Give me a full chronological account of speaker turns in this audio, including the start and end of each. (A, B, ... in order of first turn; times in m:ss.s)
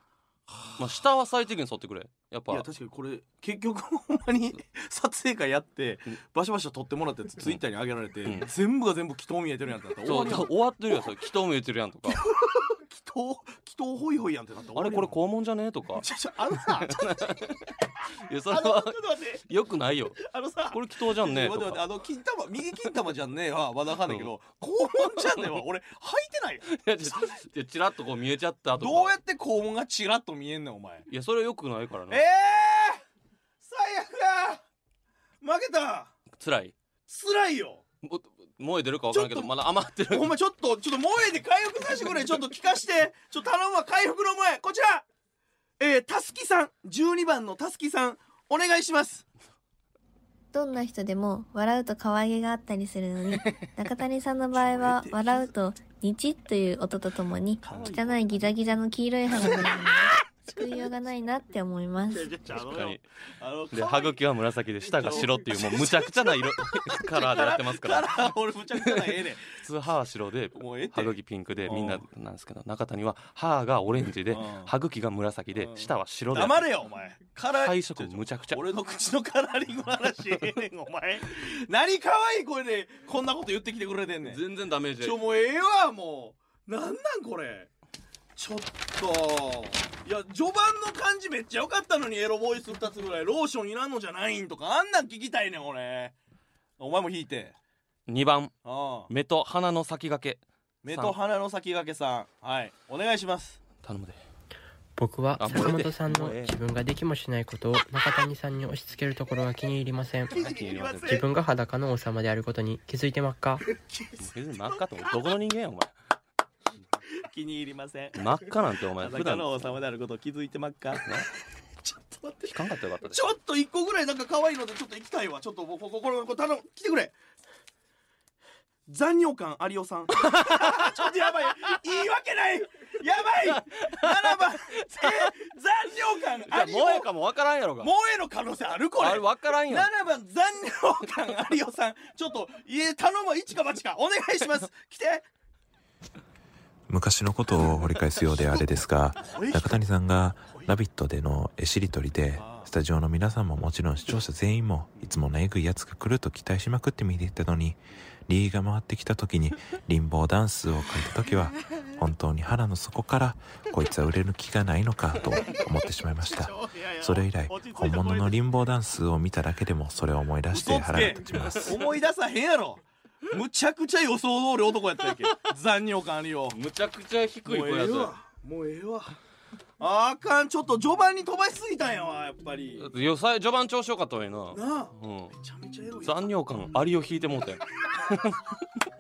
0:00.5-0:00.9 A
0:00.8-0:02.7 B
0:02.5-0:11.0 A
0:10.0-0:12.2 B
0:12.0-0:15.2 A
0:14.8-0:16.0 B
0:16.0-0:17.5 A
0:16.8-0:17.6 B
0:18.2-0:21.8 B
0:18.5-0:19.4 A
0:20.2-0:27.4 A
0:24.8-0:25.6 B
0:26.7-0:29.2 B
0:28.8-0:31.1 A
0:31.1-0:32.2 B
0:32.1-0:33.0 A
0:33.6-0:34.6 A
0:35.4-0:36.2 A
0:36.3-0:36.7 B
0:37.1-0:37.8 A
0:38.0-0:40.4 B
0:39.1-0:45.0 A
0:45.8-0:49.3 A
0:50.5-1:02.4 C
0:54.5-0:55.5 A
0:57.6-0:58.6 A
1:02.1-1:04.2 A
1:02.6-1:03.0 B
1:03.7-1:08.3 B
1:04.8-1:09.5 A
1:08.9-1:16.7 B
1:10.6-1:12.0 A
1:14.3-1:14.7 A
1:15.5-1:24.4 A
1:17.6-1:18.6 B
1:24.2-1:25.2 B
1:25.0-1:27.7 A
1:28.4-1:36.2 A
1:36.8-1:37.6 A
1:38.1-1:38.6 B
1:38.6-1:39.1 A
1:39.1-1:41.2 B
1:40.8-1:43.6 A
1:43.8-1:44.2 B
1:45.0-1:50.4 D
1:45.4-1:46.5 B
1:50.3-1:51.2 B
1:50.3-1:51.3 A
1:51.1-1:53.6 D
1:53.8-1:54.8 A
1:54.2-1:55.9 B
1:57.2-1:58.2 A
1:58.2-1:59.6 B
1:59.0-2:01.2 A
2:01.8-2:02.5 A
2:02.4-2:03.2 B
2:03.0-2:07.1 A
2:08.9-2:17.1 A
2:10.2-2:10.9 B
2:13.8-2:15.3 B
2:16.5-2:17.9 B
2:17.8-2:25.3 A
2:19.0-2:19.9 B
2:26.9-2:51.7 E
2:29.2-2:29.9 A
2:30.4-2:30.8 A
2:32.4-2:32.7 A
2:46.3-2:48.4 A
2:50.5-2:56.6 A
2:56.5-2:58.1 B
2:57.4-2:59.2 A
2:59.8-3:02.9 A
3:02.8-3:05.3 B
3:04.5-3:06.5 A
3:06.0-3:08.6 B